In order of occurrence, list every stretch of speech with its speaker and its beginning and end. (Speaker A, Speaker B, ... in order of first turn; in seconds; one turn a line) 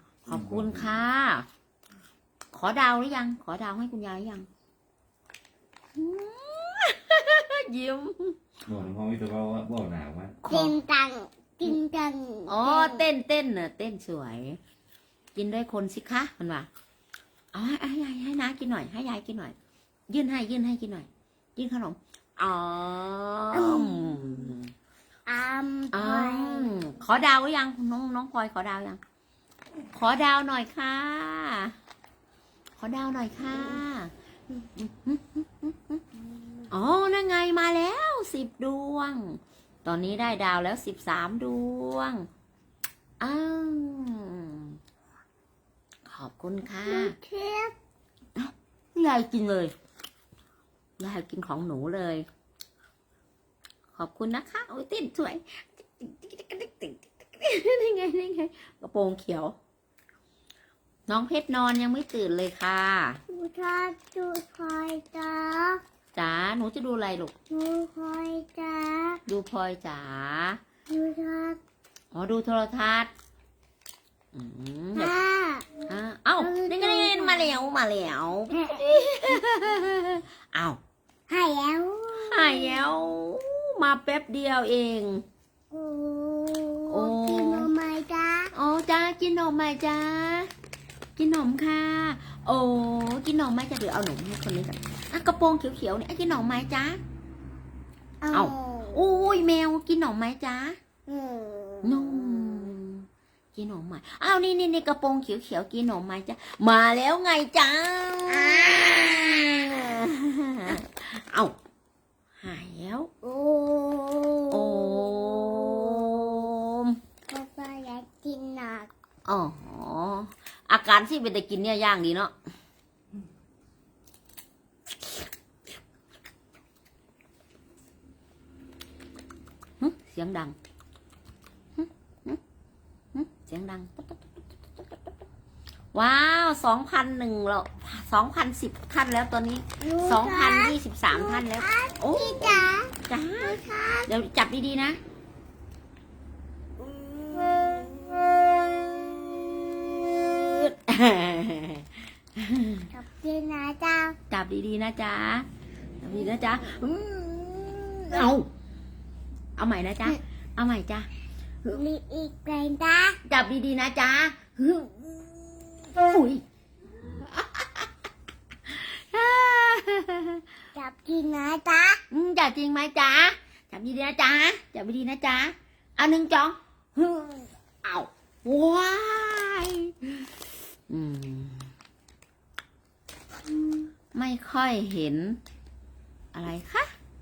Speaker A: 0.3-1.5
Speaker B: 0.3-1.0
Speaker A: 2.5-4.5
Speaker A: 6.0-8.4
Speaker B: 8.7-10.4
Speaker A: 10.4-10.8
Speaker C: 10.5-13.1
Speaker A: 12.5-14.6
Speaker A: 15.3-16.7
Speaker A: 17.5-19.6
Speaker A: 20.1-24.7
Speaker C: 23.5-24.5
Speaker C: 25.3-26.7
Speaker A: 25.9-29.0
Speaker A: 29.9-31.7
Speaker A: 32.8-34.1
Speaker A: 34.8-36.0
Speaker C: 36.4-36.6
Speaker A: 36.7-42.3
Speaker A: 43.2-44.8
Speaker A: 46.0-47.1
Speaker C: 46.7-47.7
Speaker A: 48.4-49.7
Speaker A: 51.0-52.3
Speaker A: 53.9-59.6
Speaker A: 61.1-63.2
Speaker C: 63.3-65.8
Speaker A: 66.1-67.3
Speaker C: 67.5-69.2
Speaker A: 69.3-70.6
Speaker C: 70.9-71.6
Speaker A: 72.1-73.1
Speaker A: 74.3-75.1
Speaker C: 75.0-75.8
Speaker A: 75.9-80.8
Speaker C: 76.4-77.6
Speaker C: 78.5-79.4
Speaker C: 81.3-82.9
Speaker A: 82.1-85.2
Speaker C: 85.7-88.5
Speaker A: 86.9-87.7
Speaker A: 88.5-90.5
Speaker A: 91.2-97.0
Speaker C: 98.2-99.0
Speaker A: 98.3-100.8
Speaker C: 101.1-102.5
Speaker A: 101.8-111.6
Speaker C: 108.3-109.5
Speaker A: 112.4-113.1
Speaker C: 113.2-116.4
Speaker A: 114.5-117.0
Speaker C: 117.3-118.9
Speaker A: 119.2-122.3
Speaker A: 129.8-130.6
Speaker A: 131.8-132.4
Speaker A: 133.1-134.3
Speaker A: 135.9-145.0
Speaker C: 139.8-144.1
Speaker C: 146.8-148.6
Speaker A: 150.1-152.9
Speaker C: 152.9-154.2
Speaker A: 154.3-155.5
Speaker A: 156.0-158.5
Speaker A: 159.6-161.1
Speaker C: 161.7-163.2
Speaker A: 163.2-166.4
Speaker A: 167.1-167.9
Speaker A: 168.7-170.4
Speaker C: 170.7-172.0
Speaker A: 172.1-180.3
Speaker A: 180.9-181.7
Speaker A: 183.7-185.4
Speaker A: 186.3-186.9